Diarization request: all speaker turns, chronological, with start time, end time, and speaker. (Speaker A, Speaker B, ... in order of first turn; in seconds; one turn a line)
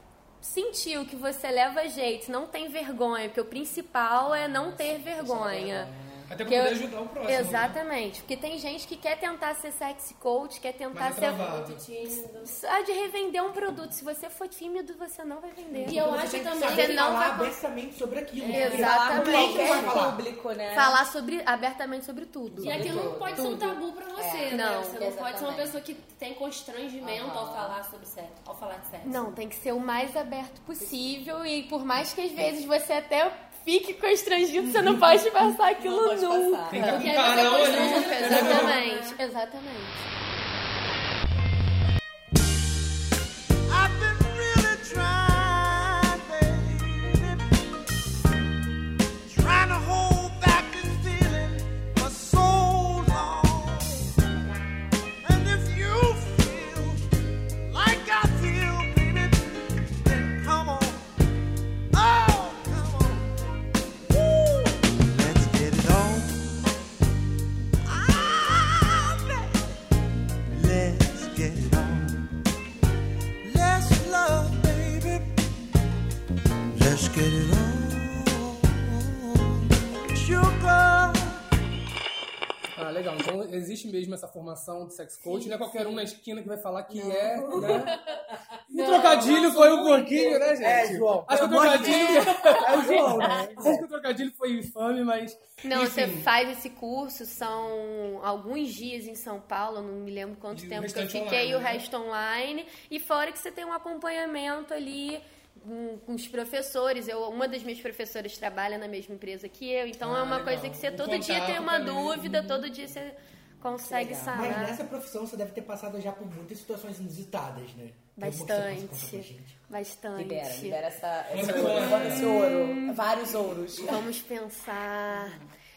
Speaker A: 0.4-5.9
Speaker B: 4.3-6.3
Speaker C: 6.3-7.8
Speaker A: 6.5-11.6
Speaker C: 10.9-11.8
Speaker D: 11.5-12.5
Speaker A: 12.4-17.6
Speaker D: 15.8-17.2
Speaker E: 15.9-20.2
Speaker D: 18.4-18.8
Speaker A: 18.5-20.0
Speaker B: 18.6-21.0
Speaker A: 20.7-23.7
Speaker B: 22.6-25.7
Speaker D: 22.6-29.3
Speaker A: 24.5-25.0
Speaker B: 27.0-27.8
Speaker A: 29.0-40.1
Speaker B: 35.8-37.0
Speaker C: 36.7-38.8
Speaker D: 36.8-39.2
Speaker B: 37.8-38.4
Speaker F: 43.7-47.5
Speaker F: 49.2-54.1
Speaker F: 55.2-57.1
Speaker F: 57.7-61.1
Speaker F: 61.9-66.8
Speaker F: 67.8-69.7
Speaker F: 70.5-72.3
Speaker F: 73.4-75.3
Speaker F: 76.7-81.4
Speaker C: 82.8-88.0
Speaker C: 88.7-96.2
Speaker A: 88.7-90.9
Speaker E: 90.6-93.9
Speaker A: 91.8-92.6
Speaker A: 95.6-114.8
Speaker C: 100.5-101.8
Speaker C: 110.0-112.6
Speaker B: 113.8-114.6
Speaker E: 114.3-119.6
Speaker A: 118.2-120.8
Speaker B: 120.2-124.0
Speaker C: 121.3-122.5
Speaker A: 122.4-123.0
Speaker A: 123.8-125.4
Speaker B: 125.2-125.5